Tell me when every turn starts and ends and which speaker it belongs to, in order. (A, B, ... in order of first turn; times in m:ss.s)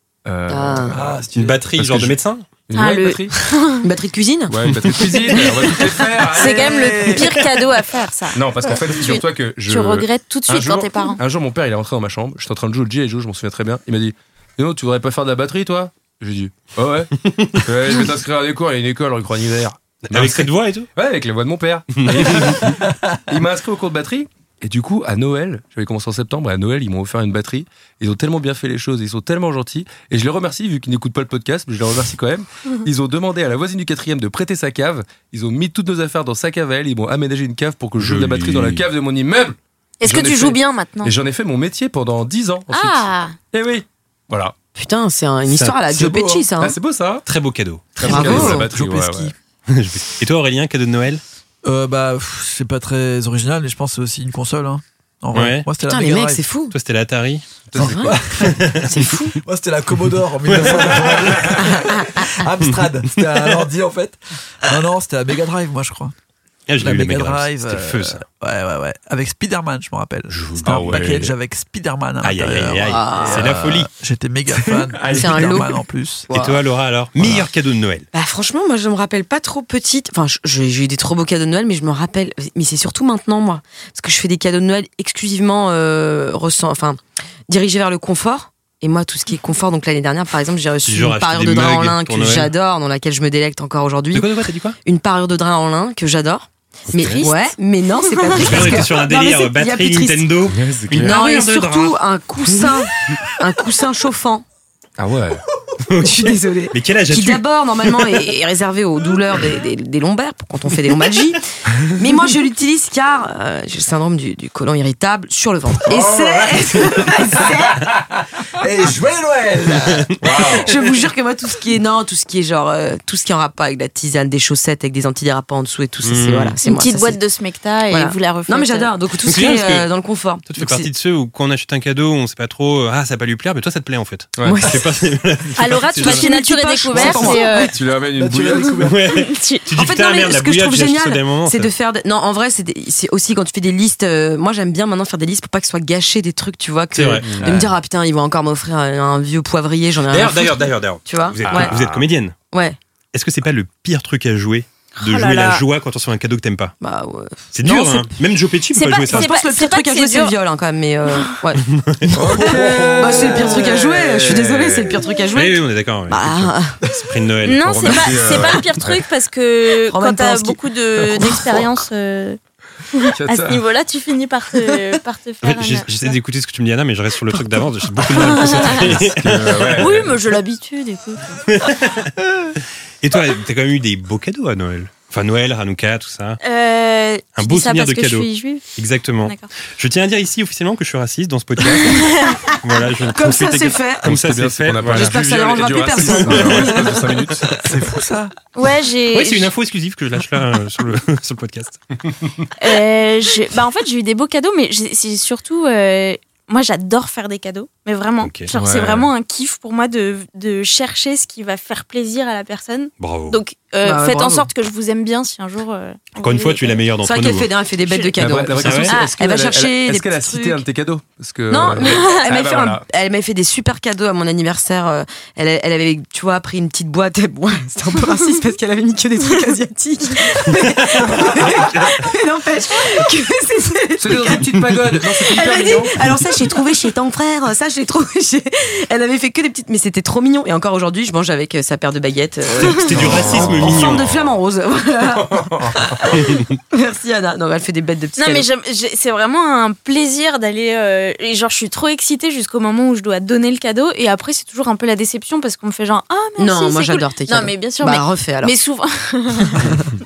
0:00.2-0:03.3 A
0:00.5-0:01.0 B
0:00.9-0:01.6 C
0:01.3-0:02.5 D
0:02.7-0:03.8 E
0:03.8-0:04.5 B
0:04.5-0:07.4 A
0:05.3-0:11.2 E
0:08.3-0:44.5 A
0:17.3-0:17.7 D
0:20.1-0:20.9 D
0:22.0-0:22.6 D
0:22.5-0:23.0 C
0:38.0-0:38.8 D
0:40.0-0:41.1 E
0:42.7-0:43.3 E
0:44.8-0:46.8 B
0:45.4-0:45.8 D
0:46.0-0:47.2 A
0:47.2-0:48.5 D
0:48.0-0:49.3 A
0:48.0-0:49.3 C
0:48.0-0:48.6 B
0:49.7-0:51.2 D
0:51.6-0:56.4 C
0:55.3-0:55.7 D
0:55.8-0:56.7 B
0:56.7-0:57.4 D
0:57.7-0:58.2 A
0:57.8-1:06.1 C
0:57.8-0:59.4 B
0:58.4-0:58.9 D
1:00.4-1:01.6 D
1:01.6-1:02.1 B
1:06.7-1:08.2 D
1:06.8-1:16.3 C
1:10.3-1:11.3 A
1:12.2-1:13.9 D
1:12.8-1:13.5 B
1:14.6-1:15.6 A
1:15.1-1:15.7 B
1:16.3-1:16.6 B
1:16.3-1:18.1 D
1:18.1-1:40.3 B
1:30.8-1:32.5 D
1:34.1-1:34.8 D
1:36.9-1:37.2 D
1:37.0-1:37.2 A
1:37.0-1:37.4 E
1:38.0-1:38.5 E
1:38.4-1:42.0 D
1:40.5-1:41.2 A
1:41.0-1:44.4 B
1:45.0-1:45.4 A
1:45.8-1:47.4 D
1:46.0-1:57.8 B
1:55.9-1:56.7 A
1:58.5-2:00.4 C
2:00.2-2:00.7 A
2:00.3-2:07.2 B
2:06.0-2:06.6 D
2:06.6-2:08.9 E
2:07.9-2:10.9 B
2:09.2-2:09.9 D
2:10.4-2:16.3 D
2:14.4-2:14.7 A
2:14.4-2:14.8 B
2:15.6-2:17.8 E
2:16.0-2:17.7 B
2:17.0-2:18.9 A
2:18.1-2:19.1 C
2:18.8-2:21.7 D
2:19.1-2:19.7 E
2:19.7-2:31.7 B
2:26.9-2:27.4 D
2:27.2-2:27.7 A
2:30.1-2:32.3 D
2:31.4-2:32.0 A
2:32.5-2:32.8 B
2:33.1-2:36.7 D
2:35.0-2:35.6 E
2:36.8-2:38.1 B
2:37.5-2:39.3 D
2:38.8-2:40.4 E
2:39.0-2:46.8 B
2:41.7-2:42.1 D
2:42.1-2:45.0 A
2:42.3-2:43.6 C
2:45.3-2:48.1 D
2:47.4-2:52.4 E
2:47.6-2:49.0 A
2:49.9-2:51.6 B
2:52.9-2:56.1 E
2:53.1-2:53.6 A
2:55.4-3:00.0 D
2:58.2-2:58.9 E
2:58.5-3:00.2 A
2:59.7-3:01.4 E
3:01.5-3:02.2 D
3:03.0-3:06.4 D
3:06.4-3:08.7 E
3:07.4-3:15.2 D
3:09.2-3:09.5 E
3:11.7-3:12.5 E
3:13.1-3:14.1 B
3:14.0-3:17.7 A
3:14.9-3:17.1 B
3:16.0-3:16.9 D
3:17.6-3:18.3 C
3:18.5-3:19.5 E
3:19.1-3:21.8 D
3:22.6-3:36.8 E
3:28.2-3:28.5 D
3:28.5-3:29.0 A
3:33.0-3:33.4 D
3:33.8-3:34.5 B
3:36.2-3:37.5 D
3:37.0-3:40.6 B
3:37.8-3:38.2 E
3:38.2-3:42.8 A
3:38.6-3:39.0 D
3:38.8-3:39.2 E
3:41.5-4:08.4 B
3:41.8-3:42.3 E
3:50.9-3:51.9 D
3:54.0-3:56.1 A
4:02.7-4:04.1 D
4:02.9-4:04.3 A
4:05.1-4:06.1 A
4:08.2-4:19.8 E
4:16.4-4:18.5 B
4:19.5-4:19.9 B